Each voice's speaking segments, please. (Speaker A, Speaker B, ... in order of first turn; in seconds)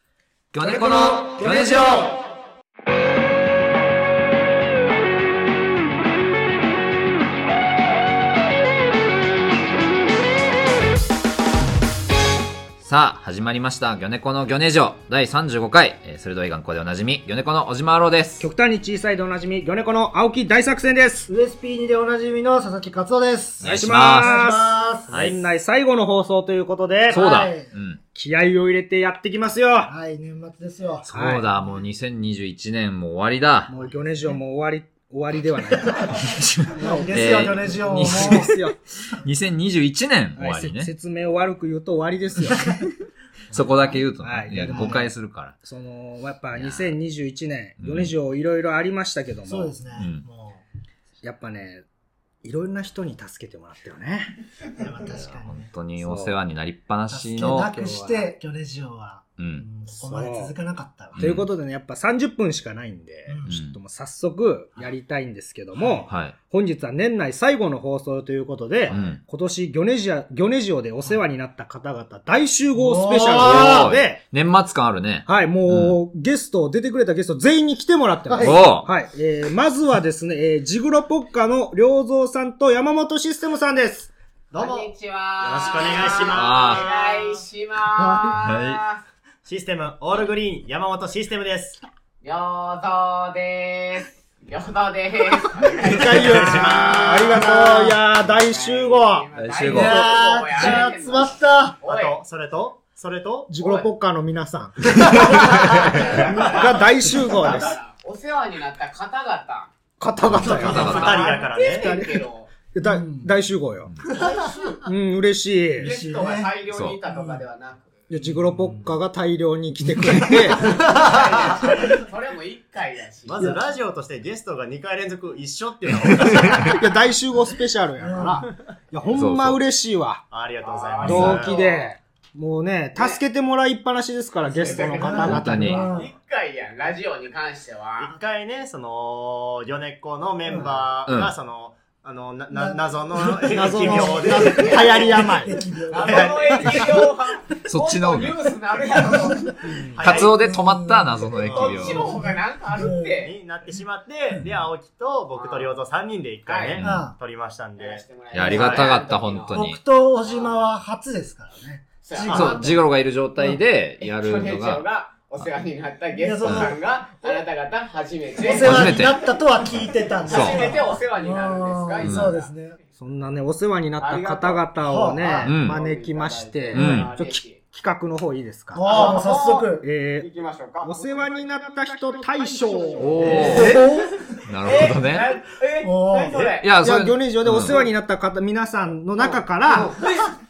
Speaker A: 0.5-2.1, 12.8-18.5, 23.6-24.4, 27.1-28.0, 31.1-33.7, 37.1-38.5, 39.2-40.9, 43.5-45.5, 46.5-46.9, 47.8-48.1, 50.0-50.2, 55.5-57.7, 59.4-59.6, 61.2-61.5, 63.5-63.8, 66.1-66.3, 68.9-69.2, 73.3-76.0, 78.4-78.9, 86.2-86.8, 88.4-88.8, 99.3-100.1, 105.0-106.0, 110.2-111.3, 116.7-117.0, 126.2-126.7, 129.1-129.6, 131.0-131.4, 135.2-135.8, 141.1-141.3, 147.6-148.5, 150.0-152.1, 156.8-157.1, 158.3-159.8, 162.3-164.8, 166.4-166.7, 168.6-169.2, 170.3-170.7, 172.0-172.3, 175.4-175.8, 176.7-177.1, 183.0-183.9, 184.4-185.3, 186.4-187.8
Speaker B: 0.6-2.1, 21.3-25.3, 27.1-27.7, 29.9-31.1, 33.7-34.4, 36.6-38.5, 42.5-42.8, 43.5-44.0, 44.6-45.0, 49.5-50.6, 54.7-55.7, 57.1-61.2, 63.3-63.5, 65.8-66.1, 72.7-74.0, 78.3-78.6, 88.0-88.4, 96.3-98.0, 99.6-101.8, 105.0-106.3, 110.4-111.2, 112.8-113.3, 114.1-114.8, 115.8-116.5, 117.0-117.5, 118.3-118.9, 120.6-121.0, 128.0-128.5, 134.7-136.1, 140.4-140.8, 142.5-147.0, 149.0-153.2, 156.8-157.2, 159.5-162.8, 166.1-166.8, 168.4-172.8, 174.8-175.5, 178.7-179.8, 182.6-184.4, 185.8-186.5
Speaker C: 18.4-21.3, 23.6-27.2, 28.1-29.9, 31.1-31.5, 33.7-37.4, 37.9-38.8, 40.4-42.8, 44.2-49.8, 51.2-51.8, 52.4-54.3, 56.0-56.3, 57.5-58.3, 59.9-60.5, 61.2-74.2, 75.3-84.1, 95.8-99.3, 100.5-100.8, 103.5-107.8, 110.0-112.2, 112.7-113.9, 114.8-115.9, 118.1-120.7, 126.6-130.2, 131.0-135.9, 143.5-145.6, 149.7-150.2, 173.0-179.2, 179.8-180.3, 180.8-183.8, 186.8-190.0
Speaker D: 68.9-69.2, 84.5-87.4, 89.4-91.8, 95.9-97.5, 101.8-103.6, 106.3-106.7, 110.4-112.0, 123.2-126.8, 130.3-131.6, 138.0-145.4, 145.9-146.9, 149.9-150.5, 153.2-159.0, 162.3-162.6, 170.4-170.7
Speaker E: 84.5-89.0, 92.2-96.6, 98.2-102.2, 103.6-103.9, 105.6-109.7, 110.5-112.5, 114.2-114.7, 115.8-117.9, 120.5-123.6, 130.6-131.9, 134.5-138.1, 144.2-145.3, 145.9-149.6, 151.4-153.3, 155.3-155.7, 156.4-156.8, 157.8-159.6, 160.2-160.7, 162.0-162.7, 164.0-169.0, 170.2-172.7, 174.0-177.6, 178.8-186.7, 189.2-190.3